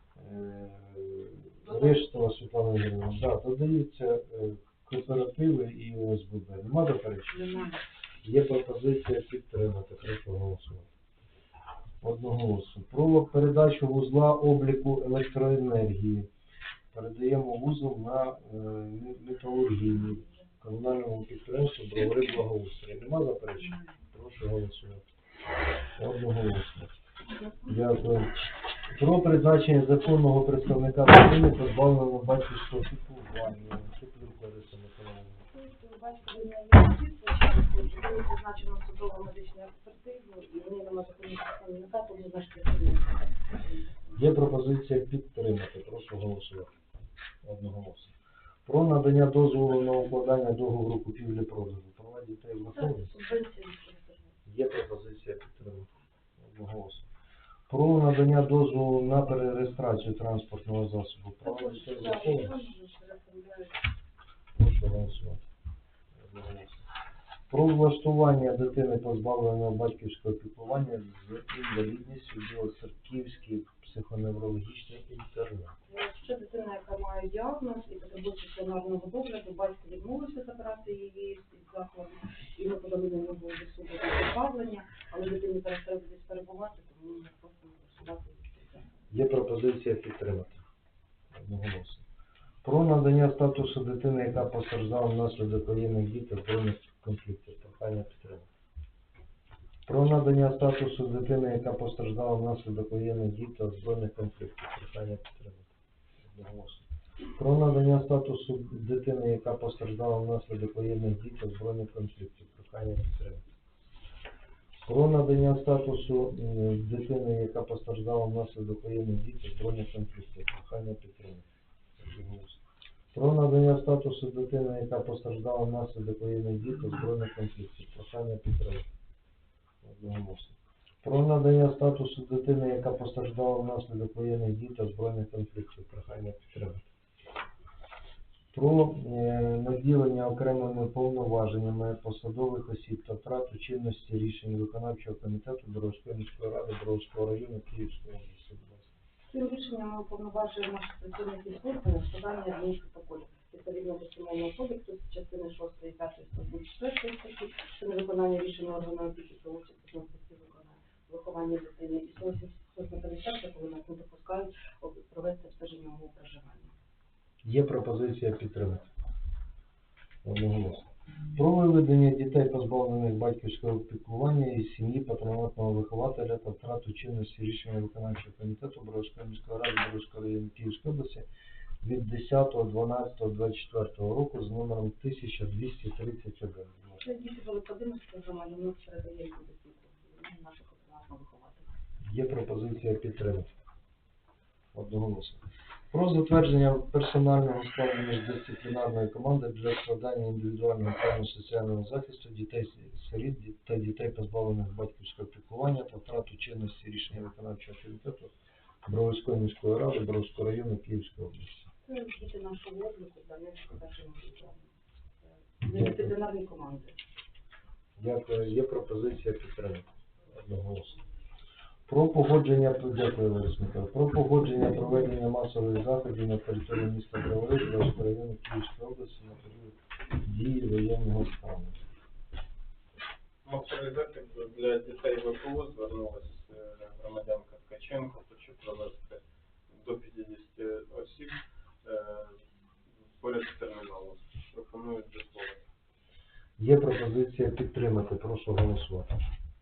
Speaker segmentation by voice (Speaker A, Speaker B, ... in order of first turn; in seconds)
Speaker A: 0.2-7.5, 8.2-10.9, 12.0-16.3, 16.9-25.1, 26.0-26.9, 27.6-35.5, 44.2-46.7, 47.4-48.1, 48.7-53.1, 54.5-57.1, 57.7-62.6, 64.5-65.4, 66.2-66.8, 67.5-75.8, 89.1-90.6, 91.3-92.0, 92.6-98.5, 99.9-105.7, 106.3-113.5, 114.9-121.5, 122.0-122.6, 123.1-128.9, 129.8-136.9, 138.5-148.9, 167.4-168.9, 170.2-181.2, 181.8-187.0, 192.1-193.5, 194.7-208.3, 208.9-211.7, 215.6-216.1, 218.0-221.0, 221.9-231.8, 246.6-249.1
Speaker B: 7.5-7.8, 35.5-44.2, 52.7-54.3, 61.4-63.9, 75.9-89.0, 149.3-166.8, 187.0-191.7, 211.8-217.0
Speaker C: 233.4-242.4, 243.0-245.6